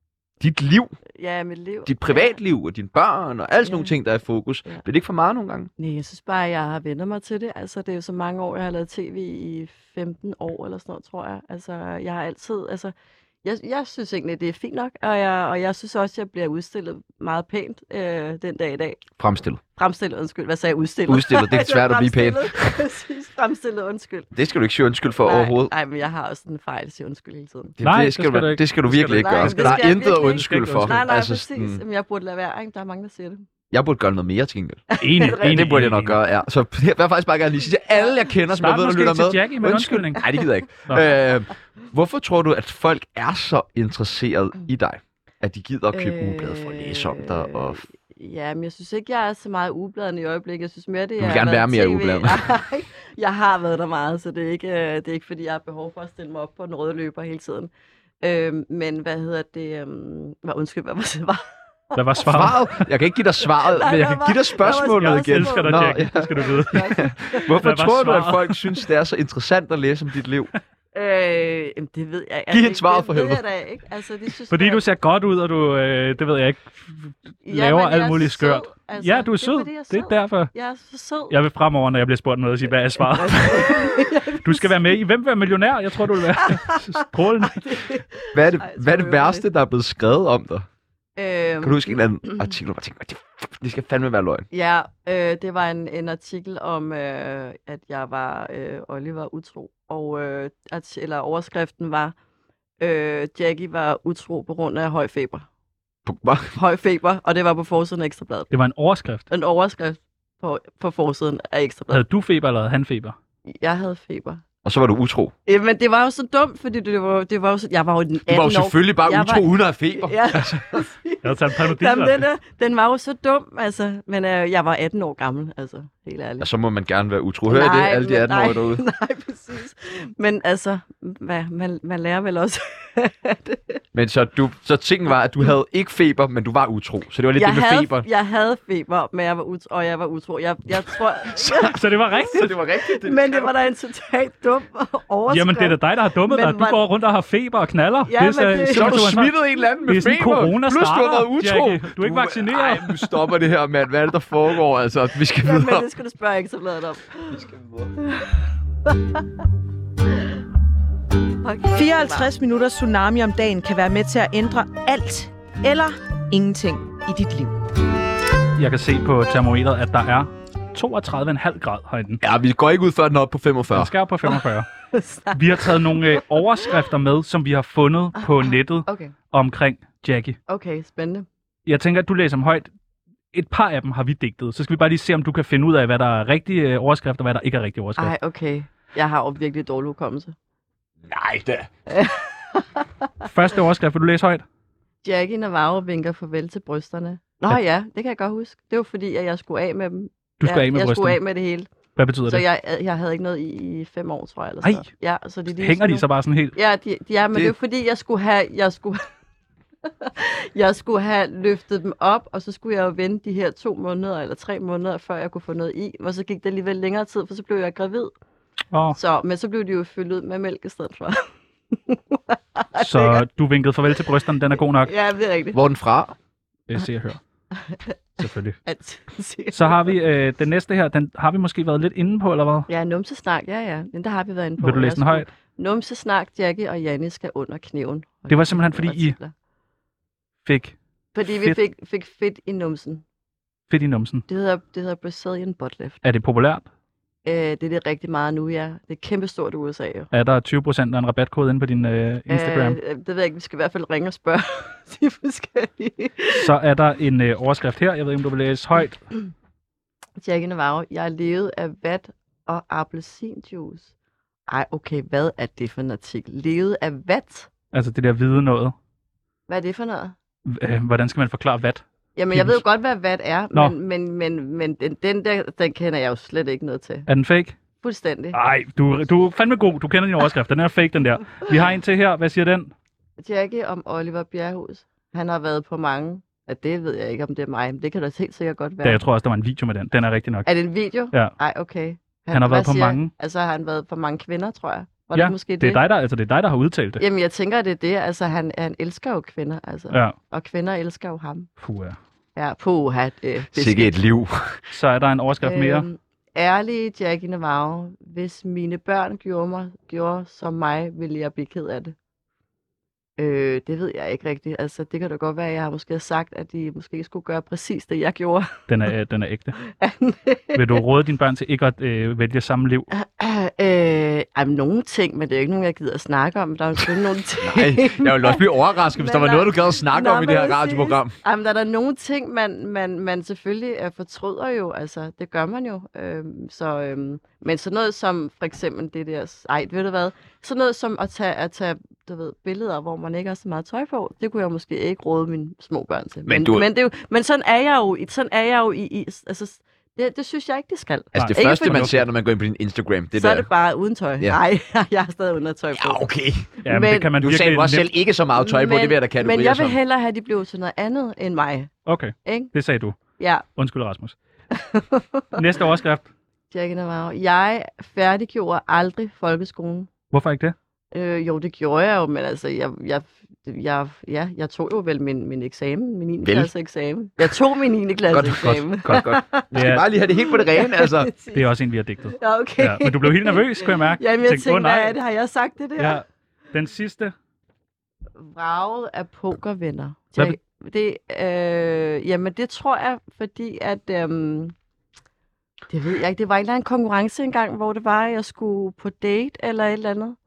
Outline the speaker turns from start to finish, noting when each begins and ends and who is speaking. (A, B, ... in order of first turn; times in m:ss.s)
0:00.4-0:01.0 A
0:01.2-0:02.4 B
0:01.9-0:05.7 A
0:03.6-0:03.9 B
0:05.8-0:19.0 B
0:19.2-0:19.6 A
0:19.8-0:24.3 B
0:21.1-0:22.8 A
0:24.3-0:25.7 A
0:25.2-0:27.8 B
0:27.8-0:31.8 A
0:27.8-0:31.0 C
0:29.1-0:33.4 B
0:33.7-0:47.8 A
0:34.9-0:35.7 B
0:35.0-0:36.2 C
0:37.9-0:38.2 B
0:38.5-0:40.2 C
0:40.9-0:41.1 C
0:45.9-0:57.7 B
0:51.2-0:52.4 A
0:58.2-1:01.4 B
1:02.0-1:02.7 C
1:02.3-1:10.5 A
1:03.6-1:07.6 B
1:04.9-1:08.6 C
1:10.9-1:14.8 B
1:12.5-1:13.4 A
1:14.5-1:20.5 C
1:17.4-1:21.3 B
1:21.3-1:27.6 C
1:23.1-1:24.7 B
1:26.4-1:29.5 B
1:28.3-1:30.7 A
1:31.2-1:32.4 B
1:31.6-1:34.5 A
1:34.5-1:42.2 B
1:42.8-1:45.5 B
1:46.1-1:46.6 A
1:46.5-1:48.5 B
1:48.5-1:49.3 C
1:49.3-1:52.0 B
1:51.9-1:53.2 C
1:53.5-1:54.4 B
1:54.6-1:55.3 A
1:55.5-2:06.5 B
1:58.3-2:00.8 A
2:01.2-2:02.2 C
2:06.4-2:08.8 A
2:07.5-2:13.8 B
2:13.9-2:18.1 A
2:17.4-2:21.8 B
2:21.3-2:23.5 A
2:21.6-2:22.5 C
2:22.9-2:26.8 B
2:25.3-2:33.0 C
2:28.1-2:29.1 B
2:28.7-2:35.9 A
2:35.4-2:37.4 B
2:37.3-2:37.9 A
2:38.0-2:39.2 B
2:41.4-2:42.3 B
2:41.7-2:47.6 D
2:48.6-2:52.2 C
2:52.2-2:53.9 A
2:53.7-2:54.7 C
2:54.9-2:56.2 B
2:55.3-3:00.4 C
2:58.2-2:59.1 B
3:00.5-3:01.3 B
3:01.7-3:02.7 C
3:03.3-3:08.1 C
3:08.0-3:10.4 B
3:11.1-3:11.7 A
3:11.9-3:13.1 B
3:13.2-3:14.4 C
3:15.0-3:21.7 B
3:20.4-3:21.2 C
3:22.0-3:22.4 C
3:22.3-3:29.0 B
3:25.5-3:26.6 C
3:30.0-3:38.1 B
3:38.7-3:39.0 C
3:38.9-3:43.2 B
3:42.8-3:44.9 C
3:44.6-3:45.6 B
3:45.5-3:46.2 A
3:46.7-3:47.2 C
3:47.6-3:48.0 B
3:48.2-3:48.6 C
3:48.6-3:49.9 B
3:49.5-3:52.7 C
3:52.7-3:59.3 B
3:54.6-3:55.3 C
3:58.3-3:59.2 C
4:00.4-4:01.6 C
4:01.2-4:03.0 B
4:03.7-4:04.2 C
4:04.3-4:06.0 B
4:06.0-4:06.7 C
4:07.2-4:10.1 B
4:10.1-4:12.8 C
4:12.3-4:16.4 B
4:16.3-4:19.0 C
4:20.2-4:23.9 B
4:24.5-4:27.5 B
4:27.7-4:28.7 C
4:29.5-4:30.2 B
4:30.5-4:32.6 C
4:32.2-4:37.1 B
4:37.1-4:37.6 C
4:37.8-4:38.4 B
4:38.3-4:42.7 C
4:43.2-4:49.0 B
4:48.8-4:50.5 C
4:50.5-4:55.8 B
4:52.3-4:53.1 C
4:55.1-4:57.0 C
4:57.0-5:01.5 B
5:01.6-5:02.0 C
5:02.4-5:03.9 B
5:03.5-5:04.6 A
5:04.7-5:05.9 C
5:05.4-5:12.0 B
5:13.2-5:18.6 B
5:18.7-5:19.6 C
5:19.6-5:20.8 B
5:20.6-5:22.9 C
5:22.9-5:51.9 B
5:27.4-5:31.2 A
5:46.3-5:46.7 A
5:51.1-5:53.5 A
5:51.2-5:52.0 C
5:53.2-5:56.1 B
5:55.8-5:56.5 A
5:56.6-5:57.1 B
5:56.7-5:57.9 C
5:57.2-5:59.8 A
5:58.4-6:01.7 B
6:01.9-6:03.0 C
6:02.2-6:02.5 B
6:03.2-6:03.4 B
6:03.6-6:04.2 C
6:04.6-6:05.4 B
6:05.4-6:06.1 C
6:06.5-6:09.9 B
6:10.1-6:10.6 C
6:10.9-6:19.5 B
6:16.2-6:16.5 A
6:18.1-6:21.1 A
6:19.5-6:19.8 C
6:20.2-6:21.5 B
6:21.3-6:25.0 C
6:22.2-6:26.0 B
6:25.8-6:27.1 C
6:28.2-6:34.6 B
6:35.7-6:40.2 B